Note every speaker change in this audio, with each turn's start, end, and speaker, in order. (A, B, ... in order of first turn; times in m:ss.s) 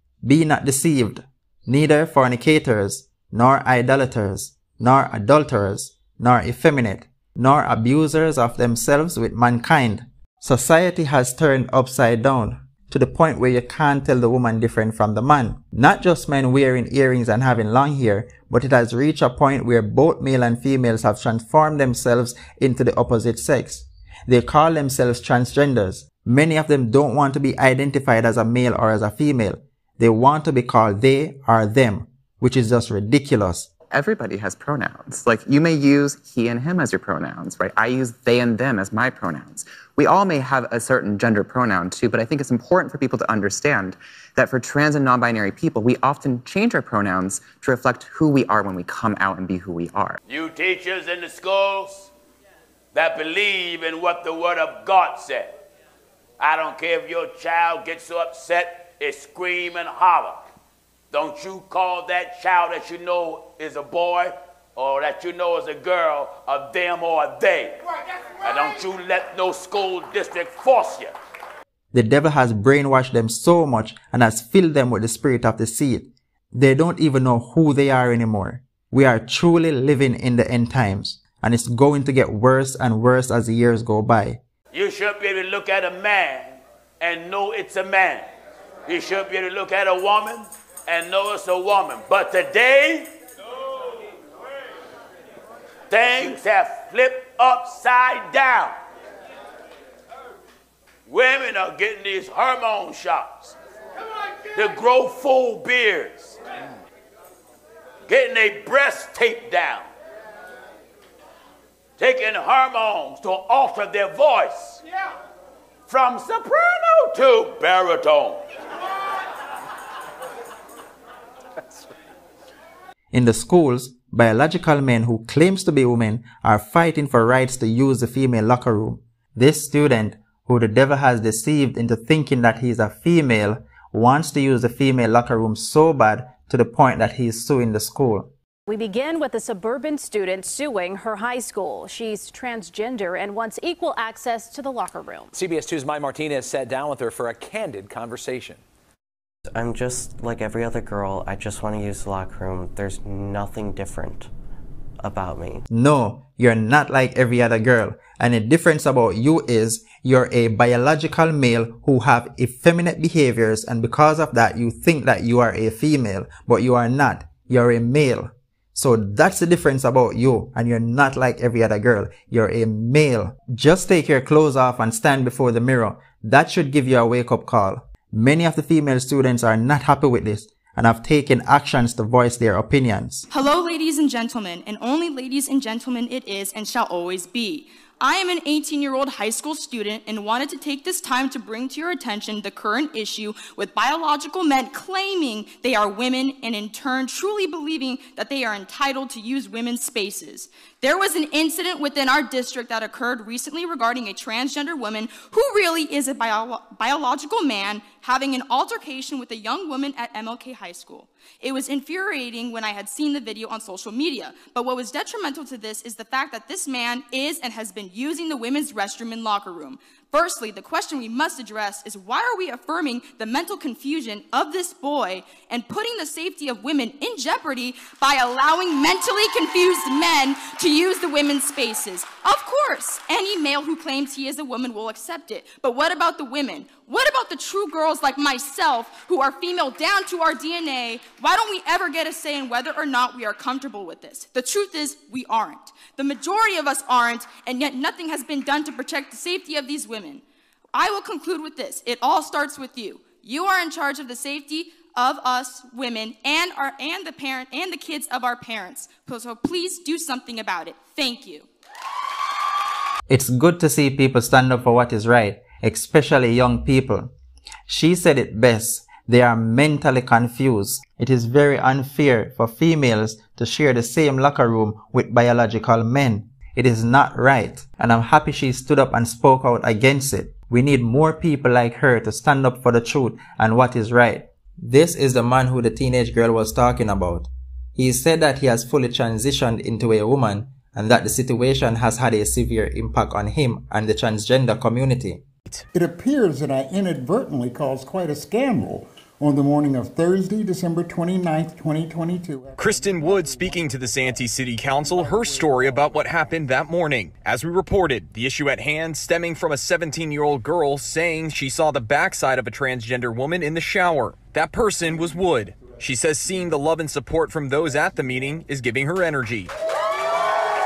0:00.2-0:33.7 A
0:33.9-0:50.2 B
0:50.3-0:52.1 C
0:52.9-0:55.5 C
0:56.4-1:00.4 C
1:01.1-1:07.8 C
1:08.4-1:11.1 C
1:11.9-1:24.4 A
1:24.7-1:28.3 C
1:28.9-1:33.1 C
1:35.9-1:38.8 C
1:41.0-1:43.6 C
1:44.5-1:46.4 C
1:48.1-1:49.9 C
1:52.0-1:54.8 C
1:55.9-1:58.4 C
2:03.1-2:18.3 A
2:18.7-2:25.3 D
2:25.3-2:28.6 E
2:29.5-2:34.3 F
2:35.0-2:35.6 F
2:35.7-3:03.2 A
3:03.3-4:10.2 G
4:10.7-4:21.5 G
4:23.1-4:27.1 A
4:27.7-4:55.2 A
4:55.7-5:06.3 H
5:02.6-5:19.5 I